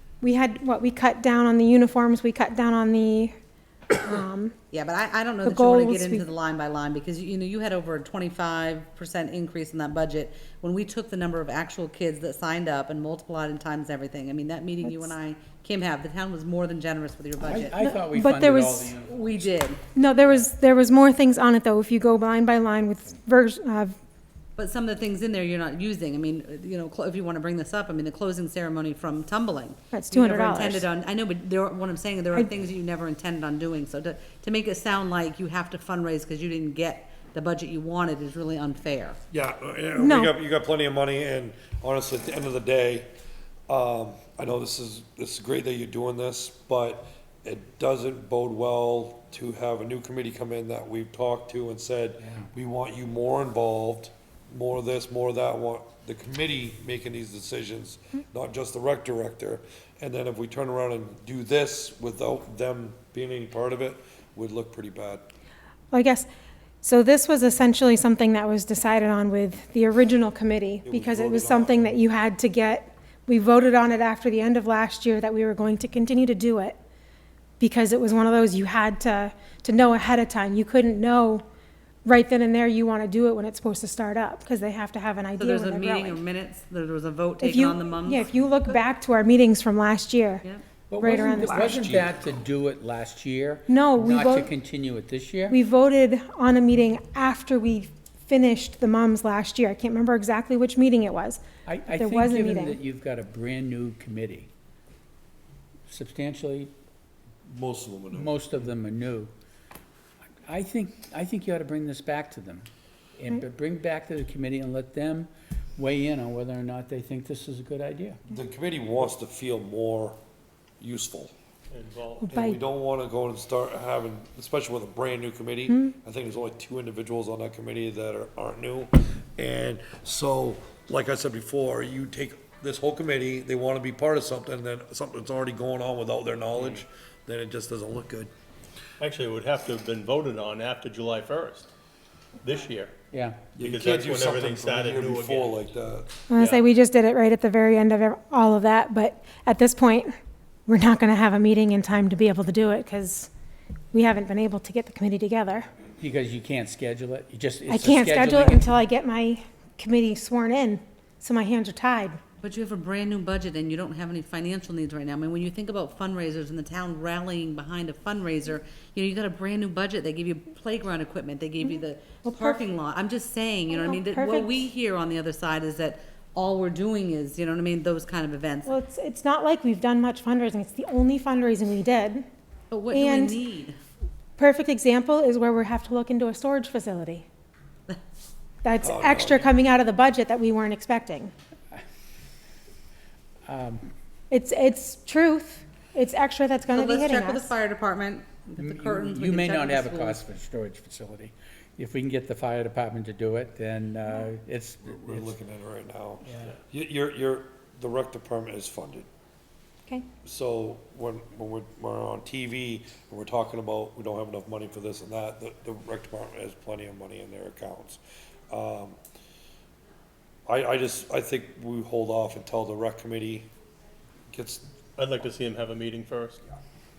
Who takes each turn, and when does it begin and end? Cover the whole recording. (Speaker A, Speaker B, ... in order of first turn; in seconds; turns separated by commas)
Speaker A: 0.2-3.3, Speaker A: 4.0-4.5, Speaker B: 4.7-17.7, Speaker A: 5.4-6.3, Speaker C: 17.4-19.4, Speaker A: 17.8-18.9, Speaker B: 19.1-19.8, Speaker A: 19.9-24.0, Speaker B: 24.6-39.2, Speaker A: 29.9-30.9, Speaker D: 39.3-43.1, Speaker A: 40.0-40.3, Speaker D: 43.7-65.3, Speaker A: 65.9-66.3, Speaker A: 66.8-76.8, Speaker D: 70.8-72.0, Speaker A: 77.6-81.4, Speaker A: 82.0-86.2, Speaker B: 85.4-88.3, Speaker A: 87.4-90.5, Speaker C: 90.9-95.6, Speaker A: 91.0-91.8, Speaker D: 91.1-92.3, Speaker A: 93.7-94.5, Speaker A: 95.5-102.8, Speaker C: 101.7-104.5, Speaker C: 105.9-106.7, Speaker D: 107.5-108.3, Speaker C: 108.1-109.3, Speaker C: 110.5-112.7, Speaker C: 113.2-118.2, Speaker D: 118.3-120.2, Speaker D: 120.8-121.3, Speaker E: 121.7-122.3, Speaker A: 122.2-122.6, Speaker D: 122.3-138.3, Speaker E: 139.0-141.7, Speaker E: 142.4-142.9, Speaker C: 143.1-143.4, Speaker D: 143.6-146.2, Speaker E: 143.6-145.6, Speaker A: 146.3-150.1, Speaker E: 146.4-146.6, Speaker A: 150.7-153.3, Speaker A: 153.9-155.7, Speaker C: 156.0-158.7, Speaker A: 157.7-162.2, Speaker B: 162.4-178.7, Speaker A: 172.2-172.7, Speaker A: 173.7-174.7, Speaker A: 178.7-182.3, Speaker B: 182.7-183.8, Speaker A: 182.9-183.4, Speaker A: 184.4-187.2, Speaker A: 188.6-191.3, Speaker D: 188.8-189.5, Speaker C: 193.5-193.9, Speaker A: 194.3-197.5, Speaker B: 196.7-200.2, Speaker C: 198.6-205.3, Speaker D: 204.9-209.1, Speaker C: 206.2-206.5, Speaker D: 210.2-219.0, Speaker D: 220.5-223.5, Speaker D: 224.3-224.7, Speaker E: 225.0-226.4